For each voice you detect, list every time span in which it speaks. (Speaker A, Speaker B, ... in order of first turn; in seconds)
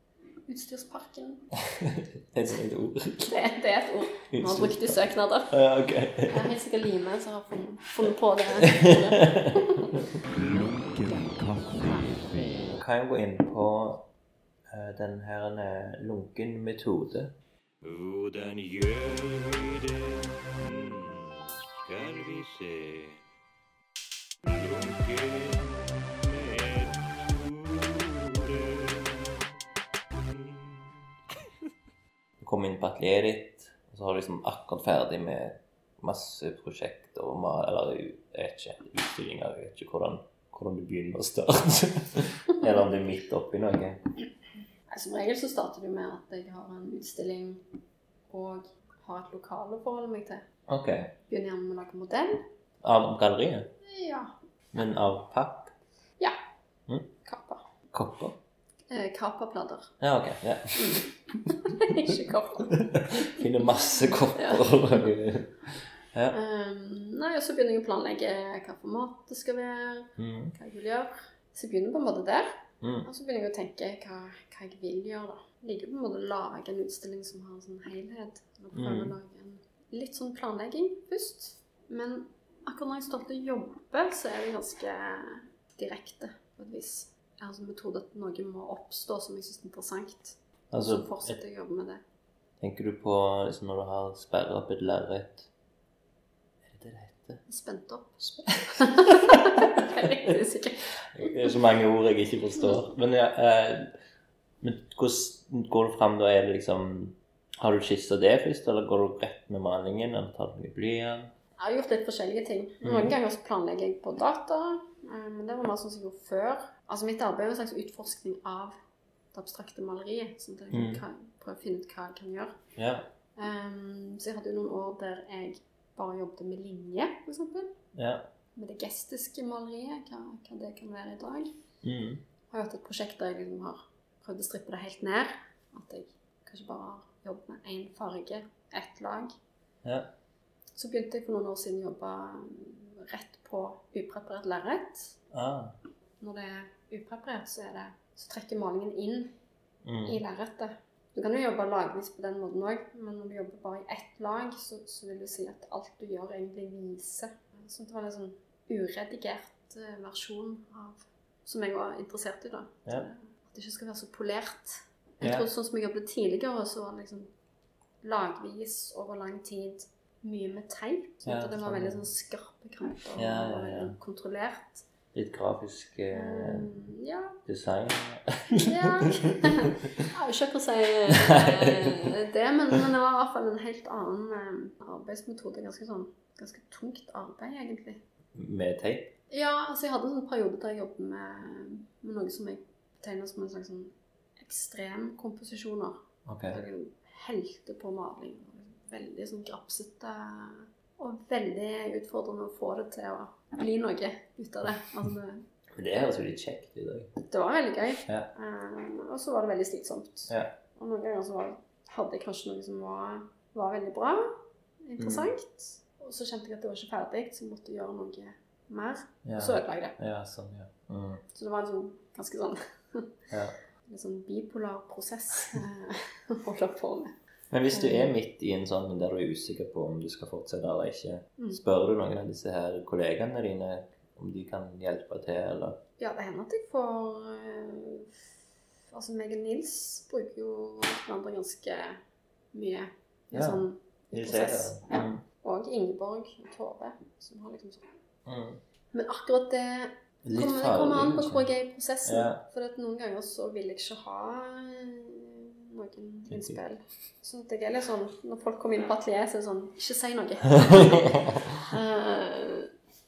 Speaker A: 0.5-1.5, 3.2-5.6, 6.3-10.0, 44.9-47.6, 48.3-50.5, 51.3-52.5, 53.8-54.4, 57.2-57.7, 58.9-59.9, 60.8-63.5, 64.3-65.1, 66.3-72.5, 73.0-92.0, 97.5-101.5, 111.6-118.8, 119.3-122.6, 123.4-127.8, 128.6-131.6, 132.5-139.3, 140.8-145.2, 146.2-149.3, 150.1-167.3, 168.0-174.9, 176.1-177.4, 178.6-188.0, 189.3-205.4, 207.2-220.0, 221.3-223.1, 223.8-227.2, 227.7-228.1, 236.0-238.3, 238.9-242.0, 242.5-247.9, 248.9-262.7
Speaker B: 1.7-3.4, 4.3-6.5, 8.5-10.2, 12.8-14.1, 14.7-17.4, 24.7-25.6, 28.3-28.8, 32.4-44.0, 50.7-51.2, 52.8-53.7, 54.7-55.7, 57.9-58.4, 60.0-62.1, 62.6-66.4, 70.2-70.6, 72.8-73.1, 78.7-79.2, 90.7-91.4, 92.6-95.5, 96.7-97.4, 98.5-100.3, 101.0-103.9, 104.6-111.3, 112.8-113.2, 120.7-121.0, 122.8-123.1, 128.0-128.3, 131.8-132.2, 139.8-140.1, 145.3-145.8, 149.8-150.2, 165.2-165.5, 171.2-172.1, 173.2-174.0, 175.1-176.8, 177.4-180.1, 181.1-182.2, 188.3-189.1, 196.3-196.6, 205.7-207.1, 208.1-208.3, 210.3-210.6, 215.0-215.3, 219.2-221.2, 223.3-223.6, 227.5-235.8, 243.3-245.2, 248.3-248.6, 250.2-251.5, 252.0-252.4, 256.3-256.6, 260.5-261.7
Speaker C: 10.2-12.7, 17.9-20.2, 20.8-21.1, 22.0-23.0